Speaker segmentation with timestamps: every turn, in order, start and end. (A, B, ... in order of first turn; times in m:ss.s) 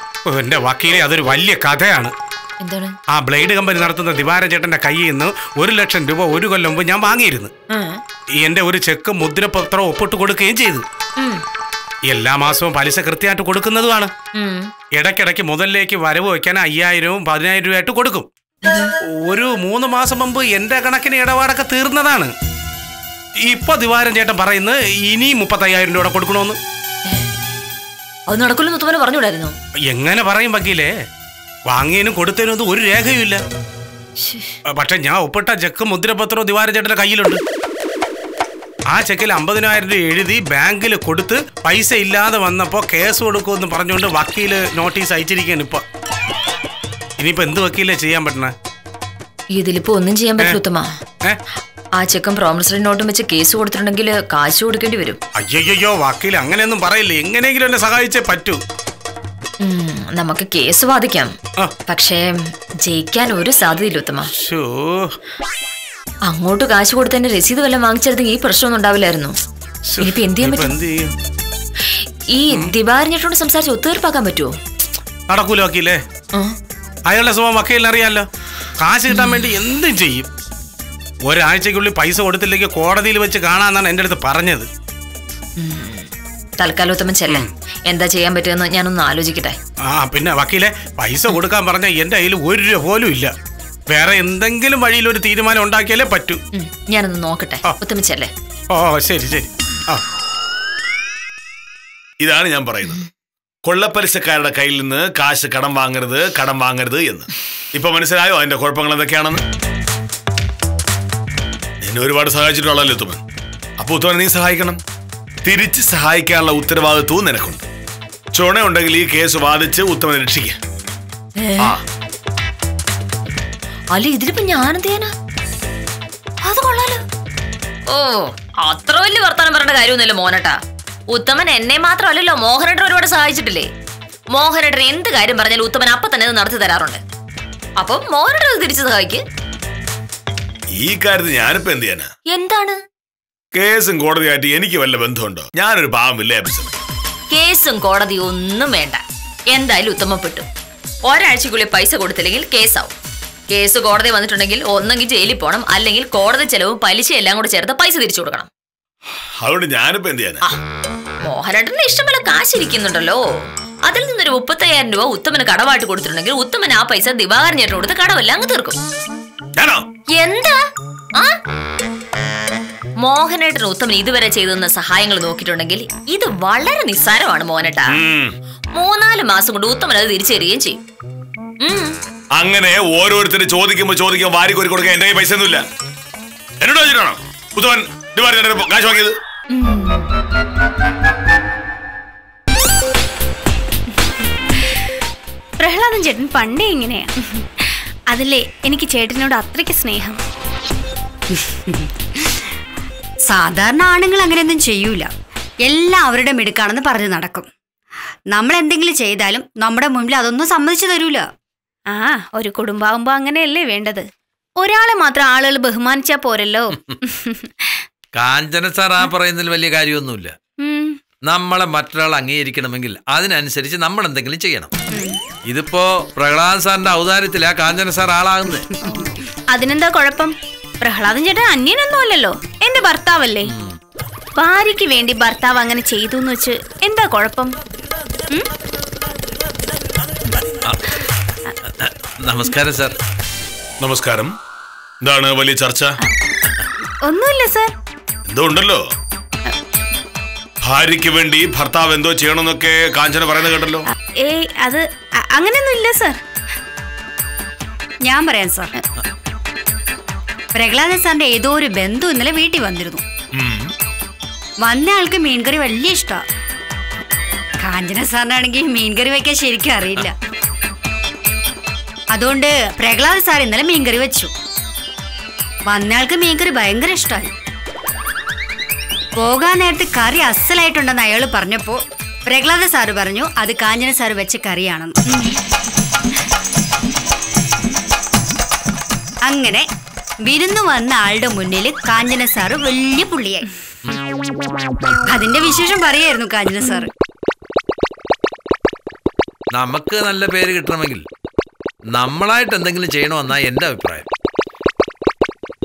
0:00.3-0:02.1 A
0:02.6-0:03.0 B
0:03.1-0:07.5 A
0:07.7-0:08.0 B
0:08.4-0:10.8 A
0:12.1-0:14.1 A
0:14.3-0:14.7 B
0:15.0-0:18.3 A
0:18.6-0:18.9 B
0:19.0-0:22.3 A
0:23.4-0:26.6 A
0:28.3-0:29.5 B
0:29.9-0:30.9 A
0:31.7-0:33.4 A
0:34.2-0:34.6 B
0:34.7-0:37.4 A
0:38.9-0:45.8 A
0:47.2-0:48.5 A
0:49.5-0:50.9 B
0:52.0-0:55.2 B
0:55.4-0:58.6 A
0:59.6-1:01.3 B
1:01.9-1:04.3 B
1:04.3-1:05.1 A
1:06.2-1:09.3 B
1:09.9-1:11.1 A
1:10.0-1:10.7 B
1:11.9-1:14.5 B
1:15.3-1:16.0 A
1:17.1-1:18.2 A
1:18.8-1:20.3 A
1:19.1-1:19.4 B
1:21.2-1:24.7 A
1:25.6-1:29.6 B
1:29.9-1:33.3 A
1:33.9-1:36.4 A
1:36.5-1:38.3 B
1:38.7-1:40.0 A
1:42.2-1:43.0 C
1:43.6-1:49.4 C
1:51.8-1:53.2 C
1:53.8-1:54.8 C
1:55.4-1:57.6 C
1:58.3-2:00.6 C
2:01.4-2:01.7 B
2:03.9-2:05.1 B
2:06.4-2:07.0 B
2:07.9-2:10.6 B
2:11.1-2:13.7 B
2:14.3-2:17.0 B
2:17.8-2:19.2 B
2:20.7-2:22.1 C
2:22.3-2:22.8 B
2:23.5-2:26.7 C
2:27.3-2:30.4 B
2:31.0-2:32.9 B
2:33.5-2:38.5 B
2:39.4-2:40.4 C
2:41.2-2:43.2 B
2:43.8-2:48.8 B
2:49.6-2:49.8 C
2:50.1-2:50.6 B
2:53.0-2:57.9 B
2:57.9-2:58.3 C
2:58.7-3:00.8 B
3:01.6-3:01.9 B
3:02.3-3:05.6 C
3:06.6-3:09.2 C
3:09.5-3:10.0 B
3:15.6-3:20.2 D
3:21.3-3:22.3 E
3:23.3-3:25.1 E
3:25.6-3:27.5 E
3:28.3-3:31.3 E
3:31.9-3:34.0 D
3:34.6-3:37.8 D
3:38.1-3:40.3 F
3:40.6-3:41.0 D
3:41.2-3:44.7 F
3:44.9-3:45.2 D
3:45.4-3:48.7 F
3:49.0-3:53.5 D
3:53.5-3:53.8 F
3:54.4-3:57.5 D
4:01.6-4:03.0 F
4:03.8-4:04.3 C
4:05.0-4:06.0 C
4:07.0-4:07.7 D
4:08.3-4:08.8 C
4:10.6-4:13.8 C
4:14.2-4:16.2 D
4:18.0-4:18.7 E
4:20.5-4:23.0 E
4:23.3-4:23.7 C
4:24.6-4:26.2 E
4:27.6-4:30.1 E
4:32.1-4:34.3 E
4:35.7-4:37.3 E
4:39.2-4:45.0 E
4:49.2-4:49.6 E
4:50.2-4:53.5 E
4:55.0-4:56.9 E
4:59.5-5:01.0 F
5:01.9-5:04.1 F